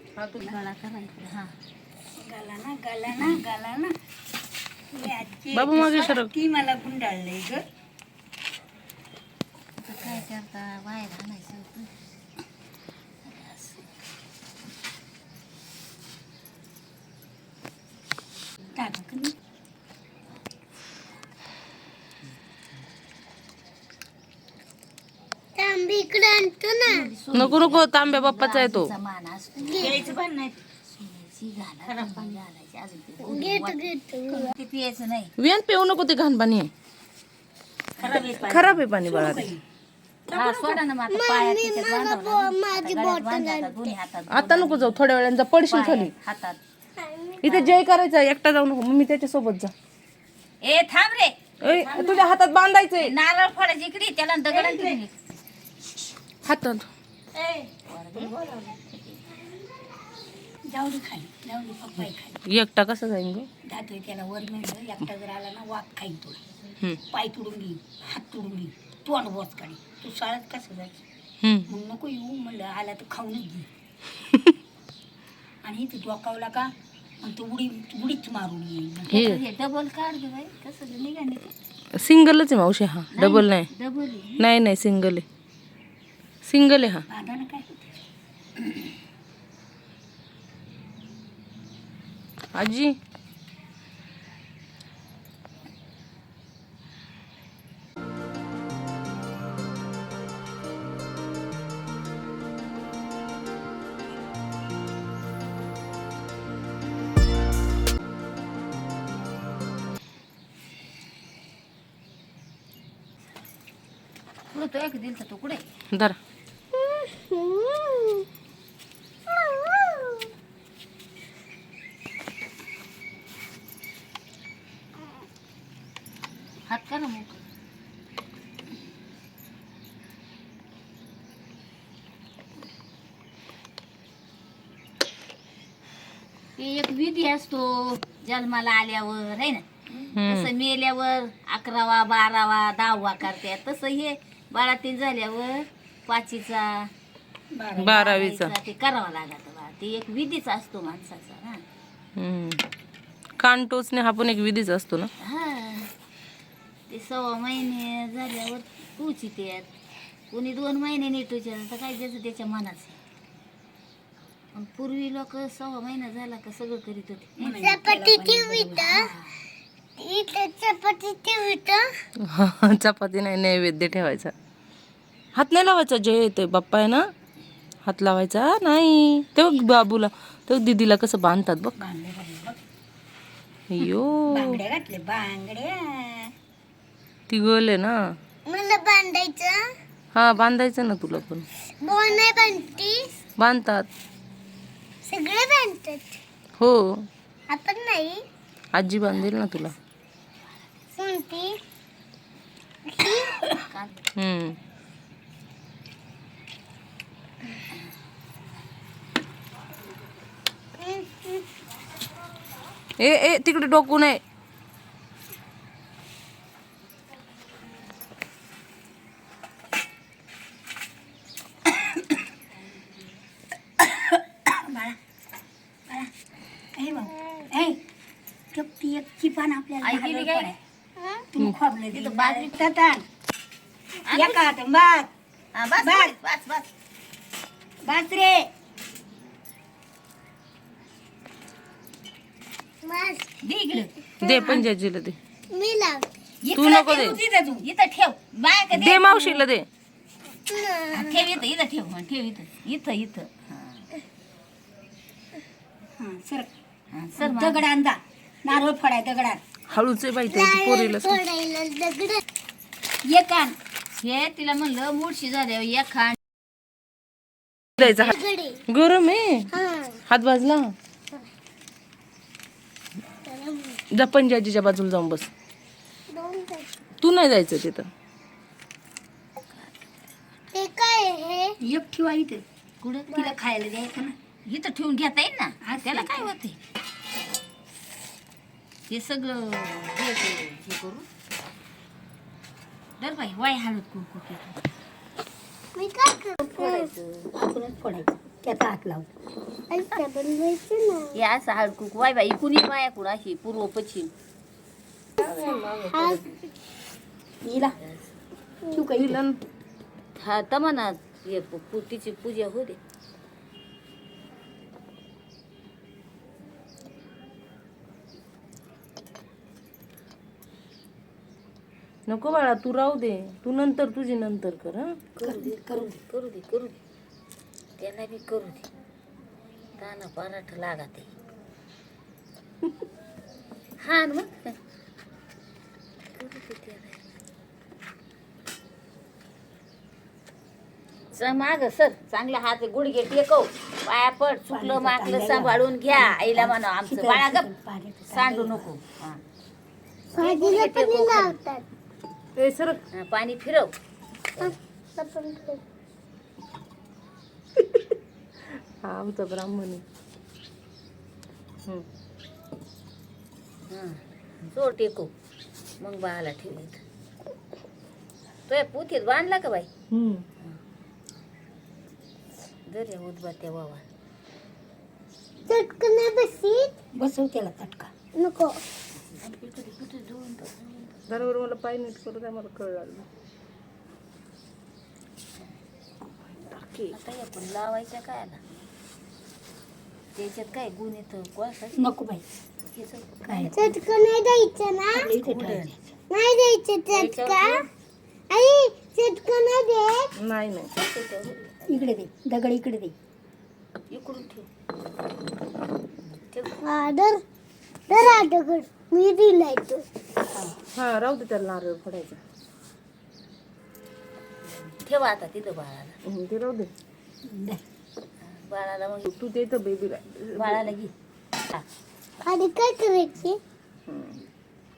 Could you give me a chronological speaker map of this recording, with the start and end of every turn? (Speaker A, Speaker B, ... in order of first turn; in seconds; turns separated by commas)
Speaker A: 0.2-0.5, Speaker B: 0.4-1.5, Speaker C: 2.1-4.0, Speaker C: 4.9-7.6, Speaker A: 5.5-6.3, Speaker B: 9.8-11.9, Speaker B: 13.2-13.8, Speaker C: 18.7-19.3, Speaker D: 25.6-27.1, Speaker B: 26.8-30.2, Speaker A: 27.3-28.9, Speaker D: 29.7-30.0, Speaker C: 29.8-30.6, Speaker B: 30.9-33.9, Speaker C: 32.0-32.4, Speaker D: 33.2-34.5, Speaker B: 34.5-35.3, Speaker A: 35.4-36.7, Speaker C: 38.0-39.6, Speaker B: 38.0-38.3, Speaker A: 38.1-39.5, Speaker B: 40.3-45.0, Speaker C: 40.3-40.6, Speaker D: 41.1-43.9, Speaker A: 44.3-46.1, Speaker B: 45.7-46.6, Speaker D: 47.0-47.6, Speaker A: 47.4-49.7, Speaker B: 47.4-47.7, Speaker B: 50.6-52.2, Speaker A: 51.6-53.1, Speaker B: 53.0-55.2, Speaker C: 54.6-54.9, Speaker A: 56.4-56.9, Speaker B: 57.3-58.4, Speaker C: 60.7-62.4, Speaker A: 62.5-63.5, Speaker C: 63.6-66.4, Speaker C: 67.1-71.0, Speaker A: 71.4-71.7, Speaker C: 71.7-73.7, Speaker C: 75.6-79.1, Speaker B: 79.1-81.5, Speaker A: 79.1-79.4, Speaker A: 82.0-83.7, Speaker B: 83.1-84.4, Speaker A: 84.4-85.2, Speaker A: 86.4-87.0, Speaker C: 87.1-87.9, Speaker A: 92.5-92.9, Speaker B: 114.5-115.6, Speaker A: 115.9-116.2, Speaker D: 116.7-118.2, Speaker D: 119.3-120.3, Speaker B: 126.7-127.4, Speaker B: 136.6-146.9, Speaker A: 140.1-140.5, Speaker C: 147.5-148.0, Speaker B: 147.8-151.6, Speaker A: 147.8-148.5, Speaker A: 152.2-152.6, Speaker A: 153.4-155.1, Speaker B: 155.2-155.9, Speaker B: 156.9-159.7, Speaker B: 160.3-163.0, Speaker B: 164.5-167.7, Speaker C: 167.4-169.3, Speaker D: 167.6-169.1, Speaker D: 170.0-171.8, Speaker A: 172.2-174.3, Speaker A: 175.3-177.1, Speaker A: 177.8-181.8, Speaker C: 181.8-182.6, Speaker A: 183.7-184.6, Speaker C: 183.8-186.3, Speaker A: 187.3-188.2, Speaker D: 188.5-189.6, Speaker A: 190.1-191.5, Speaker D: 191.8-193.1, Speaker A: 193.4-193.9, Speaker D: 195.1-196.2, Speaker A: 196.6-197.1, Speaker D: 197.5-198.2, Speaker A: 198.7-199.7, Speaker D: 200.9-201.6, Speaker D: 202.9-203.5, Speaker B: 203.6-204.0, Speaker A: 204.2-204.6, Speaker D: 210.8-211.4, Speaker A: 213.0-214.2, Speaker C: 223.8-225.0, Speaker C: 226.7-227.8, Speaker C: 228.5-230.6, Speaker B: 229.8-230.5, Speaker D: 231.0-231.2, Speaker C: 231.3-233.0, Speaker B: 231.9-232.6, Speaker B: 234.0-234.4, Speaker C: 234.1-235.1, Speaker B: 235.5-236.7, Speaker C: 235.8-236.1, Speaker C: 237.8-238.5, Speaker D: 242.8-243.2, Speaker B: 243.4-243.9, Speaker D: 244.2-244.6, Speaker A: 244.2-245.2, Speaker D: 245.5-246.1, Speaker C: 246.4-247.6, Speaker A: 246.5-247.2, Speaker B: 246.9-249.4, Speaker A: 248.7-249.7, Speaker D: 250.5-251.2, Speaker B: 250.9-253.8, Speaker C: 256.0-256.5, Speaker B: 256.9-257.6, Speaker C: 257.2-259.4, Speaker A: 259.7-261.2, Speaker D: 260.3-262.2, Speaker C: 263.0-263.6, Speaker B: 263.9-266.2, Speaker A: 267.8-268.1, Speaker D: 267.8-268.6, Speaker A: 268.7-269.5, Speaker D: 269.5-270.0, Speaker A: 270.1-270.7, Speaker D: 273.2-273.8, Speaker A: 273.9-275.3, Speaker D: 276.1-276.7, Speaker A: 277.0-277.9, Speaker D: 280.5-281.6, Speaker C: 281.6-282.4, Speaker B: 282.8-283.3, Speaker C: 283.1-284.2, Speaker B: 284.4-286.6, Speaker C: 285.6-286.3, Speaker B: 288.9-291.1, Speaker B: 293.0-294.7, Speaker D: 295.8-296.9, Speaker B: 296.5-297.3, Speaker C: 297.3-299.1, Speaker D: 299.7-301.2, Speaker B: 301.1-304.1, Speaker D: 305.2-306.2, Speaker B: 305.2-306.3, Speaker C: 307.4-307.8, Speaker B: 307.8-308.1, Speaker C: 308.7-309.2, Speaker A: 308.9-309.4, Speaker B: 310.2-312.8, Speaker A: 322.1-325.0, Speaker B: 325.1-326.8, Speaker C: 325.2-326.0, Speaker B: 327.8-328.7, Speaker B: 329.8-331.1, Speaker B: 333.8-334.6, Speaker B: 336.1-337.1, Speaker B: 341.1-347.5, Speaker C: 344.5-348.7, Speaker B: 348.1-349.2, Speaker B: 350.1-351.4, Speaker D: 350.1-351.6, Speaker A: 352.4-352.8, Speaker B: 352.9-353.7, Speaker D: 354.4-355.6, Speaker A: 358.8-359.8, Speaker B: 363.7-365.1, Speaker B: 365.8-366.8, Speaker B: 368.5-369.7, Speaker A: 369.9-370.2, Speaker B: 372.7-373.8, Speaker D: 375.4-376.7, Speaker C: 376.9-377.9, Speaker D: 378.2-378.6, Speaker B: 379.2-381.3, Speaker A: 381.1-383.1, Speaker A: 386.5-386.9, Speaker B: 386.9-388.4, Speaker B: 390.1-391.9, Speaker C: 391.7-392.2, Speaker B: 392.7-393.7, Speaker C: 393.2-393.5, Speaker D: 393.5-395.1, Speaker C: 394.9-395.7, Speaker B: 395.2-395.8, Speaker D: 396.1-397.6, Speaker B: 396.9-397.7, Speaker D: 398.3-400.1, Speaker A: 400.2-400.7, Speaker B: 400.7-401.9, Speaker C: 401.7-402.9, Speaker B: 403.9-404.5, Speaker B: 406.0-406.5, Speaker D: 406.6-407.2, Speaker D: 407.9-409.8, Speaker C: 410.3-410.6, Speaker A: 410.8-412.2, Speaker B: 414.7-415.9, Speaker A: 416.0-416.7, Speaker C: 417.2-417.6, Speaker B: 418.2-419.1, Speaker A: 419.1-420.7, Speaker B: 420.3-420.9, Speaker D: 422.2-423.4, Speaker A: 423.9-424.2